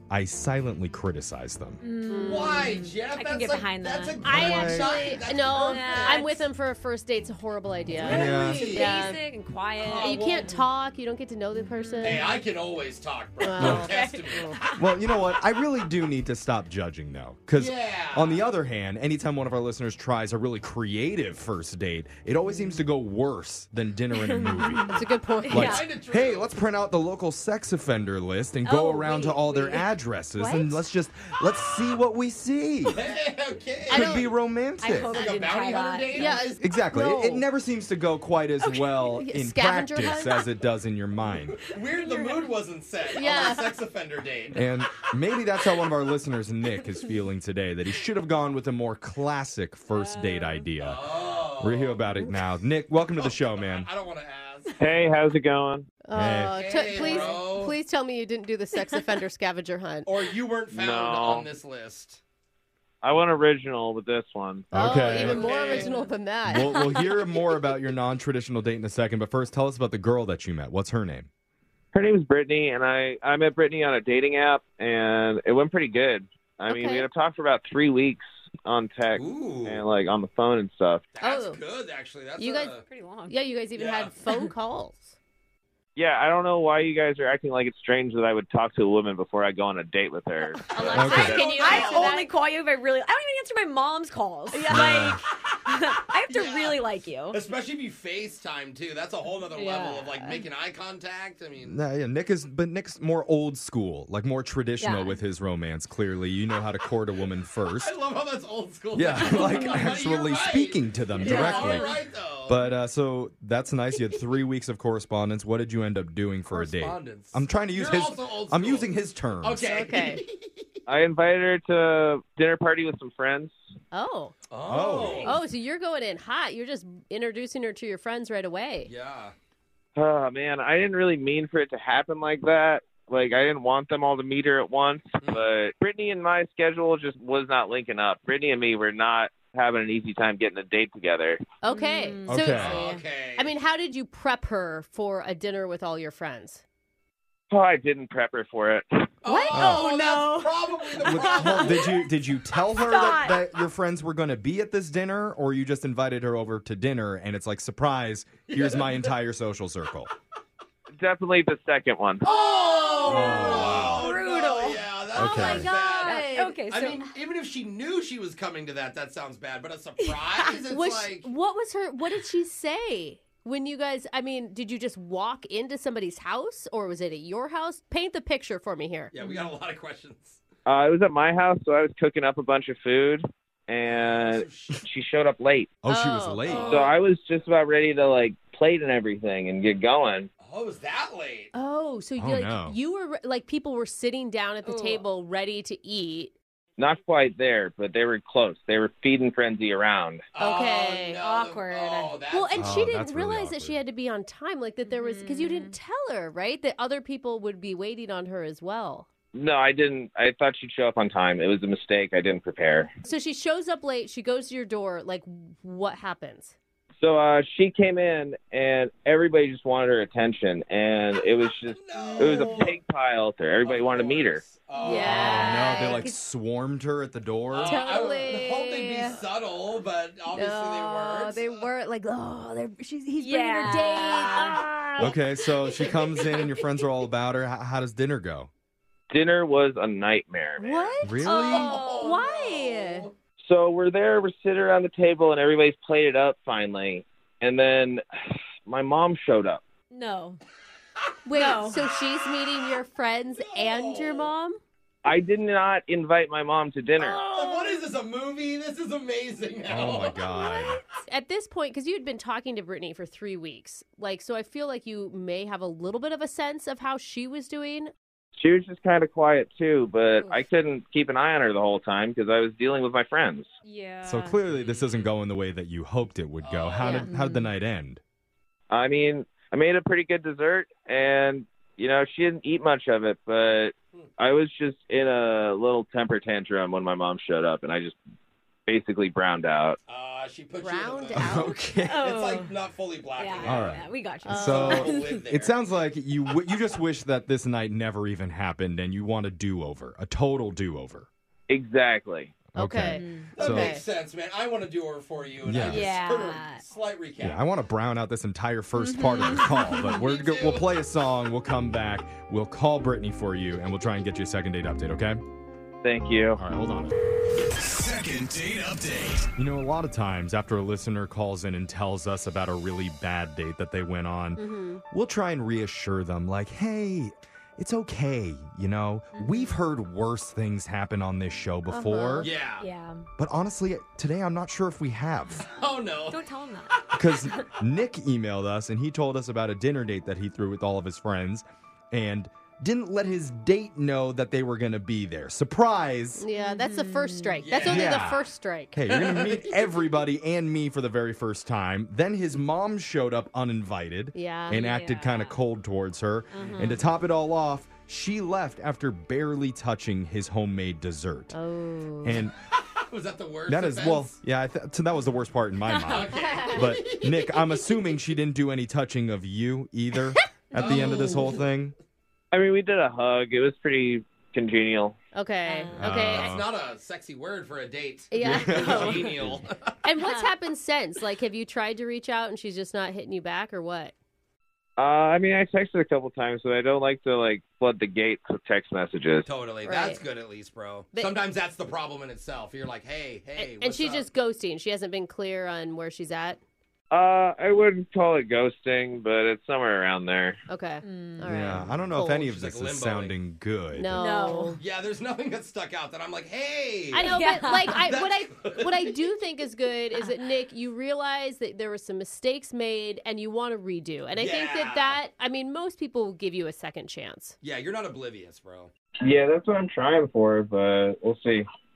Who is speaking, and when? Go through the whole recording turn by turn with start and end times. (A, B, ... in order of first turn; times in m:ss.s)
0:00.1-0:01.8 A
0:01.8-0:04.2 B
0:02.1-0:02.7 C
0:02.2-0:06.2 D
0:04.2-0:09.2 C
0:04.2-0:04.9 A
0:04.8-0:06.4 B
0:08.0-0:10.5 B
0:08.0-0:09.0 D
0:08.1-0:08.6 A
0:09.8-0:10.5 D
0:09.9-0:12.4 C
0:11.6-0:12.3 B
0:12.0-0:14.5 D
0:13.4-0:14.6 C
0:13.6-0:13.9 A
0:13.6-0:14.7 B
0:14.8-0:24.9 A
0:17.6-0:18.5 D
0:24.2-0:25.8 B
0:24.9-0:25.9 C
0:25.5-0:33.0 A
0:25.5-0:26.5 D
0:28.6-0:29.8 B
0:30.4-0:30.8 C
0:32.9-0:34.3 D
0:33.9-0:34.3 C
0:33.9-0:35.1 A
0:34.8-0:36.4 B
0:35.1-0:36.7 D
0:35.1-0:35.5 C
0:36.1-0:37.4 C
0:36.6-0:41.6 A
0:39.2-0:40.5 C
0:41.6-0:44.7 D
0:41.9-0:42.5 B
0:43.1-0:43.7 C
0:44.5-0:51.0 A
0:49.9-0:50.7 B
0:50.8-0:52.2 D
0:51.6-0:53.9 A
0:53.2-0:54.8 D
0:54.8-0:55.9 E
0:56.0-1:00.1 C
0:56.1-0:56.6 A
0:56.5-0:57.8 D
0:56.9-0:57.3 B
1:00.0-1:02.2 D
1:00.7-1:01.5 E
1:03.0-1:04.7 E
1:04.7-1:05.5 A
1:04.7-1:07.0 C
1:05.1-1:06.1 D
1:05.6-1:06.0 B
1:06.5-1:11.3 A
1:11.9-1:21.1 E
1:16.7-1:17.1 C
1:19.1-1:19.8 D
1:21.1-1:22.8 D
1:21.2-1:21.6 C
1:22.4-1:25.2 C
1:22.9-1:23.4 B
1:23.8-1:24.1 D
1:26.0-1:30.7 E
1:30.7-1:32.3 C
1:30.7-1:32.2 D
1:30.7-1:37.4 B
1:30.9-1:31.4 A
1:34.5-1:34.8 C
1:34.7-1:35.2 A
1:36.3-1:41.8 D
1:39.5-1:40.4 B
1:41.7-1:47.9 A
1:44.8-1:45.2 B
1:47.8-1:52.6 D
1:48.9-1:51.9 A
1:49.3-1:49.8 B
1:51.2-1:52.0 B
1:52.5-1:59.6 A
1:56.5-1:58.9 D
1:59.4-2:00.5 D
1:59.6-2:00.2 C
2:00.9-2:03.6 E
2:03.9-2:04.4 C
2:04.5-2:05.4 D
2:04.7-2:05.4 A
2:05.0-2:08.9 C
2:08.9-2:09.3 D
2:10.0-2:21.4 E
2:21.6-2:26.6 C
2:21.7-2:23.0 B
2:22.3-2:22.8 A
2:22.5-2:23.5 D
2:27.5-2:29.1 E
2:29.2-2:31.9 D
2:29.2-2:31.9 B
2:29.5-2:29.9 A
2:31.0-2:40.1 A
2:32.8-2:33.4 B
2:38.5-2:39.2 D
2:41.0-2:42.3 E
2:42.2-2:51.3 D
2:42.3-2:44.9 B
2:43.1-2:44.1 A
2:43.1-2:43.8 C
2:45.2-2:45.7 A
2:45.2-2:46.6 C
2:45.5-2:47.1 B
2:50.0-2:50.5 B
2:50.7-2:59.1 C
2:59.1-3:00.4 D
2:59.2-2:59.5 B
3:00.7-3:05.8 E
3:03.8-3:04.8 D
3:05.8-3:06.7 A
3:05.9-3:06.8 C
3:06.5-3:06.8 B
3:06.5-3:06.8 D
3:06.7-3:10.3 E
3:10.4-3:11.5 D
3:11.5-3:16.3 C
3:12.2-3:12.8 A
3:14.6-3:15.0 B
3:16.8-3:20.2 E
3:20.3-3:22.9 D
3:20.4-3:21.2 C
3:21.2-3:22.2 B
3:22.3-3:29.1 C
3:22.6-3:23.8 A
3:24.8-3:25.7 B
3:29.3-3:32.9 E
3:33.0-3:36.6 C
3:37.0-3:44.4 E
3:41.7-3:42.8 D
3:42.0-3:42.6 C
3:43.6-3:45.8 D
3:44.8-3:46.2 C
3:44.8-3:45.7 B
3:45.0-3:47.8 A
3:47.5-3:51.7 D
3:47.6-3:49.2 C
3:50.3-3:55.2 C
3:53.2-3:55.1 B
3:55.0-3:58.5 A
3:59.1-4:00.8 E
4:00.6-4:03.1 C
4:00.8-4:03.1 D
4:01.0-4:01.7 A
4:01.2-4:02.2 B
4:03.4-4:08.0 E
4:08.6-4:09.6 E
4:09.9-4:10.4 B
4:11.2-4:14.6 C
4:11.4-4:11.8 B
4:13.5-4:14.3 D
4:15.0-4:17.2 E
4:17.0-4:20.3 D
4:17.0-4:17.8 B
4:19.7-4:20.8 A
4:21.0-4:27.9 C
4:28.4-4:33.5 E
4:30.2-4:30.4 B
4:33.6-4:34.4 B
4:34.0-4:38.0 A
4:34.6-4:35.1 D
4:36.4-4:37.1 D
4:36.8-4:37.1 C
4:37.1-4:37.5 B
4:38.7-4:48.0 E
4:48.7-4:49.8 E
4:49.9-4:51.5 D
4:50.6-4:51.6 C
4:51.2-4:52.0 A
4:51.9-4:52.5 B
4:52.0-4:53.8 D
4:53.2-4:55.2 B
4:53.4-5:01.1 A
4:54.2-4:54.9 C
4:54.4-4:55.6 D
5:01.5-5:02.4 E
5:02.5-5:03.7 A
5:02.6-5:03.9 C
5:02.9-5:03.3 B
5:03.4-5:07.4 D
5:05.4-5:05.9 A
5:05.6-5:06.6 B
5:07.2-5:15.2 A
5:08.8-5:09.9 B
5:09.5-5:10.8 D
5:15.8-5:16.4 E
5:16.4-5:16.9 A
5:19.3-5:32.3 A
5:24.4-5:24.8 C
5:29.1-5:29.6 B
5:31.7-5:32.3 C
5:32.2-5:32.7 D
5:32.6-5:33.0 B
5:33.2-5:35.5 A
5:35.6-5:36.2 D
5:36.1-5:36.8 B
5:36.9-5:46.2 A
5:46.2-5:48.7 C
5:46.3-5:47.4 B
5:47.4-5:48.1 D
5:47.6-6:01.4 A
5:48.9-5:49.6 D
5:54.1-5:54.7 C
5:54.5-5:55.4 B
5:56.3-5:56.8 B
6:01.3-6:02.2 C
6:02.0-6:02.3 A
6:02.7-6:04.2 D
6:03.5-6:11.8 A
6:05.7-6:06.3 B
6:05.8-6:07.7 D
6:10.5-6:11.4 D
6:10.6-6:11.0 B
6:12.3-6:15.0 E
6:15.1-6:16.4 C
6:15.4-6:15.8 B
6:15.8-6:16.5 A
6:15.9-6:19.5 D
6:18.1-6:19.2 C
6:18.2-6:19.4 A
6:19.8-6:23.9 C
6:20.0-6:20.3 B
6:24.8-6:29.3 E
6:29.3-6:34.1 D
6:29.6-6:30.0 C
6:33.4-6:36.4 C
6:36.9-6:40.4 E
6:40.5-6:42.2 C
6:40.8-6:41.3 B
6:41.3-6:44.0 A
6:41.9-6:43.2 D
6:43.7-6:44.6 C
6:44.0-6:44.6 B
6:44.6-6:48.9 D
6:46.9-6:57.4 C
6:46.9-6:47.8 B
6:54.2-6:55.0 D
6:57.4-6:58.7 D
6:59.0-7:01.5 E